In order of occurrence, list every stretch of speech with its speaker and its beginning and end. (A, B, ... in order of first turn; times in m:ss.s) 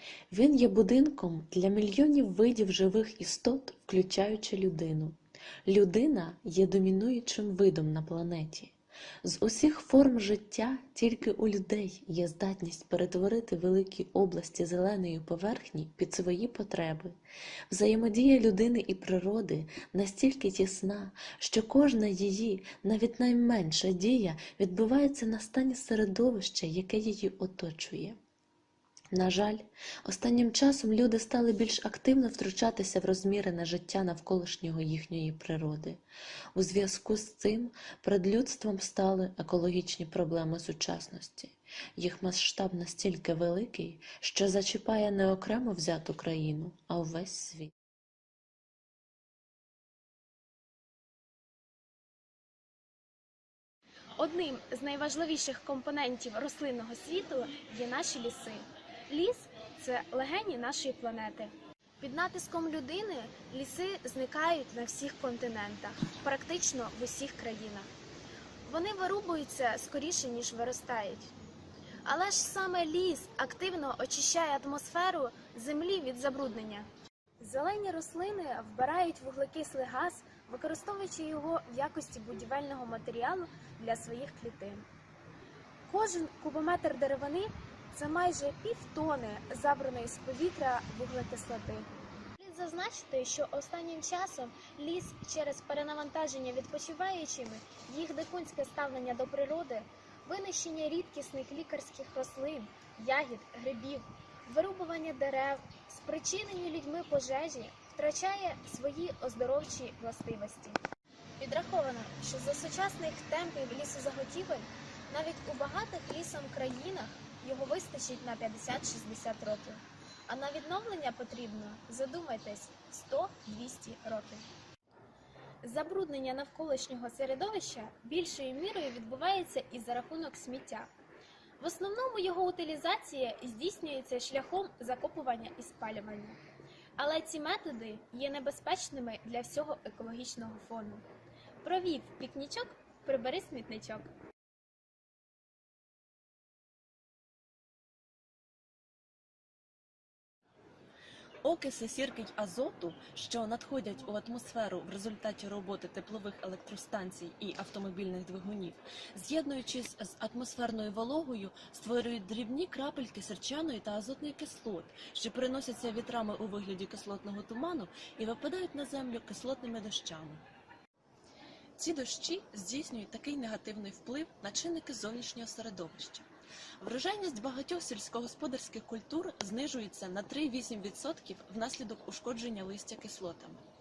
0:00.3-0:17.2 A
0:17.7-0:28.2 A
0:29.1-0:36.0 A
0:36.5-0:47.7 A
0:54.2-1:07.9 B
1:08.6-1:11.3 B
1:12.0-1:16.9 B
1:17.4-1:24.8 B
1:25.9-1:31.9 B
1:32.4-1:50.8 B
1:51.4-2:04.4 B
2:05.6-2:10.9 B
2:11.6-2:16.4 B
2:17.0-2:21.0 B
2:21.6-2:24.1 B
2:31.5-2:31.8 A
2:31.8-2:32.2 C
2:32.9-2:38.5 C
2:33.1-2:33.9 A
2:39.2-2:40.8 A
2:40.4-2:42.2 C
2:41.5-2:42.0 A
2:42.8-2:44.0 C
2:43.3-2:43.7 A
2:45.7-2:47.3 A
2:46.0-2:47.4 C
2:49.2-2:50.4 C
2:49.3-2:49.9 A
2:51.8-2:52.0 A
2:51.8-2:54.3 C
2:52.6-2:53.5 A
2:56.8-2:57.2 A
2:58.0-2:58.9 A
2:58.2-2:58.6 C
2:59.2-3:02.0 C
2:59.5-2:59.8 A
3:01.0-3:01.3 A
3:02.0-3:02.9 A